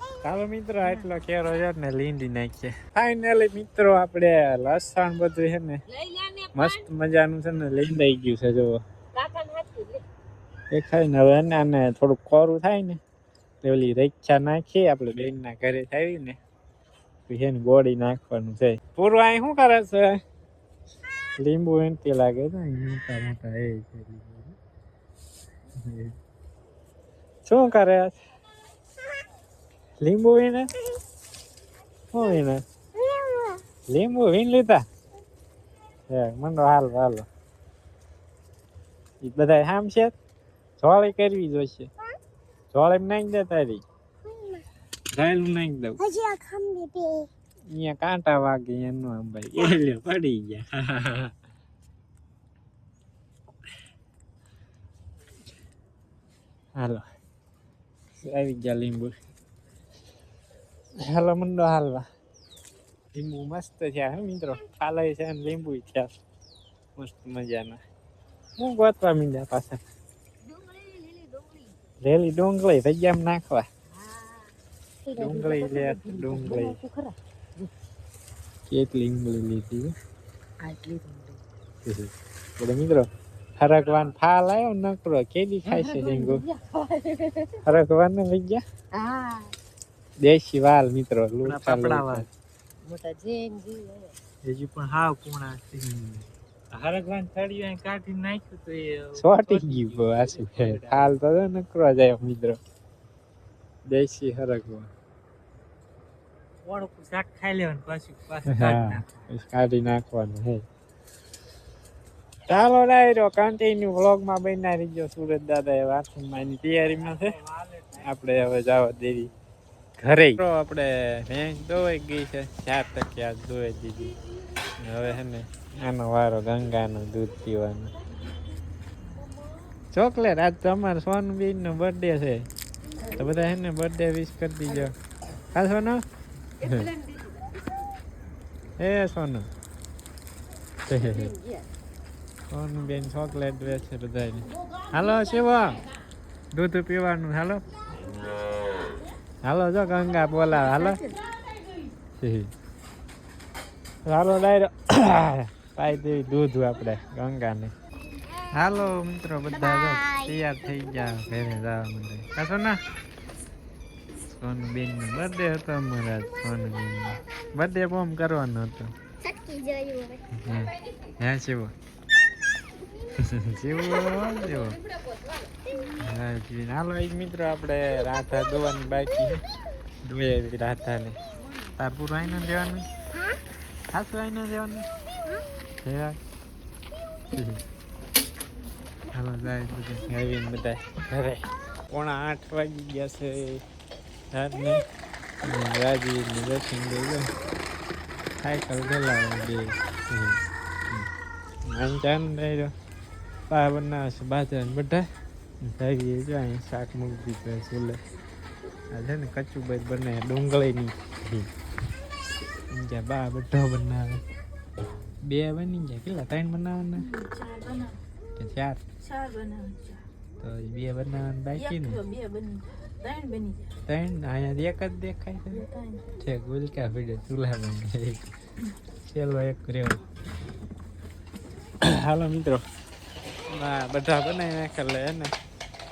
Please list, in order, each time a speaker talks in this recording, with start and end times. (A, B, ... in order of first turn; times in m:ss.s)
0:00.2-0:05.8 A
0:00.8-0:01.1 B
0:05.9-0:06.9 B
0:06.6-0:08.8 A
0:09.1-0:10.0 B
0:10.7-0:13.0 A
0:13.6-0:16.4 A
0:17.3-0:20.2 A
0:21.4-0:24.6 A
0:25.8-0:26.1 A
0:27.4-0:28.2 A
0:30.0-0:30.7 A
0:32.1-0:32.6 A
0:33.3-0:33.6 C
0:33.9-0:34.8 A
0:36.1-0:37.3 A
0:39.2-0:40.1 A
0:40.8-0:41.9 A
0:42.7-0:43.8 A
0:44.3-0:44.6 C
0:45.1-0:46.2 A
0:46.2-0:47.3 C
0:47.7-0:51.3 A
0:56.8-0:57.0 A
0:58.2-0:59.2 A
1:01.0-1:02.1 A
1:03.1-1:06.1 A
1:07.0-1:07.8 A
1:08.6-1:09.8 A
1:10.4-1:11.8 B
1:12.0-1:13.6 A
1:13.9-1:14.5 B
1:15.1-1:17.7 B
1:15.2-1:16.8 A
1:18.7-1:19.9 A
1:20.6-1:21.4 B
1:21.8-1:26.4 A
1:25.6-1:27.6 B
1:27.6-1:28.6 A
1:28.9-1:29.6 B
1:30.2-1:32.3 A
1:31.4-1:32.3 D
1:32.8-1:34.2 B
1:34.4-1:35.8 D
1:35.8-1:36.3 A
1:36.7-1:41.2 D
1:39.2-1:42.6 A
1:43.9-1:44.9 A
1:46.6-1:49.3 D
1:48.5-1:50.6 A
1:52.5-1:57.4 A
1:57.6-1:58.0 D
1:58.0-1:59.3 A
2:00.0-2:04.2 A
2:04.8-2:07.9 A
2:09.9-2:12.5 A
2:13.1-2:15.0 A
2:15.5-2:16.0 A
2:16.6-2:17.6 B
2:18.8-2:19.5 A
2:20.9-2:21.3 A
2:20.9-2:21.7 B
2:22.5-2:25.8 A
2:26.5-2:27.6 A
2:29.4-2:31.0 A
2:30.5-2:31.2 B
2:32.2-2:32.5 A
2:34.0-2:37.7 A
2:38.5-2:42.8 A
2:44.3-2:48.9 A
2:49.3-2:50.2 C
2:50.3-2:51.7 A
2:50.5-2:51.1 B
2:53.2-2:54.8 A
2:54.4-2:55.8 B
2:56.0-2:59.4 A
3:00.0-3:01.2 A
3:01.4-3:01.8 B
3:01.8-3:02.9 A
3:03.9-3:04.9 A
3:05.8-3:06.2 A
3:07.3-3:07.6 A
3:09.1-3:13.6 A
3:14.3-3:14.8 A
3:15.4-3:17.3 A
3:18.4-3:21.1 A
3:21.7-3:22.7 A
3:23.5-3:25.0 A
3:25.6-3:28.0 A
3:28.9-3:31.5 A
3:32.7-3:34.2 A
3:35.2-3:37.1 A
3:37.2-3:38.0 C
3:38.4-3:38.8 A
3:39.0-3:40.0 C
3:40.4-3:42.0 A
3:41.8-3:43.6 C
3:43.9-3:45.6 A
3:45.7-3:46.0 C
3:46.2-3:48.2 A
3:49.0-3:50.0 A
3:51.8-3:52.6 A
3:53.5-3:55.3 A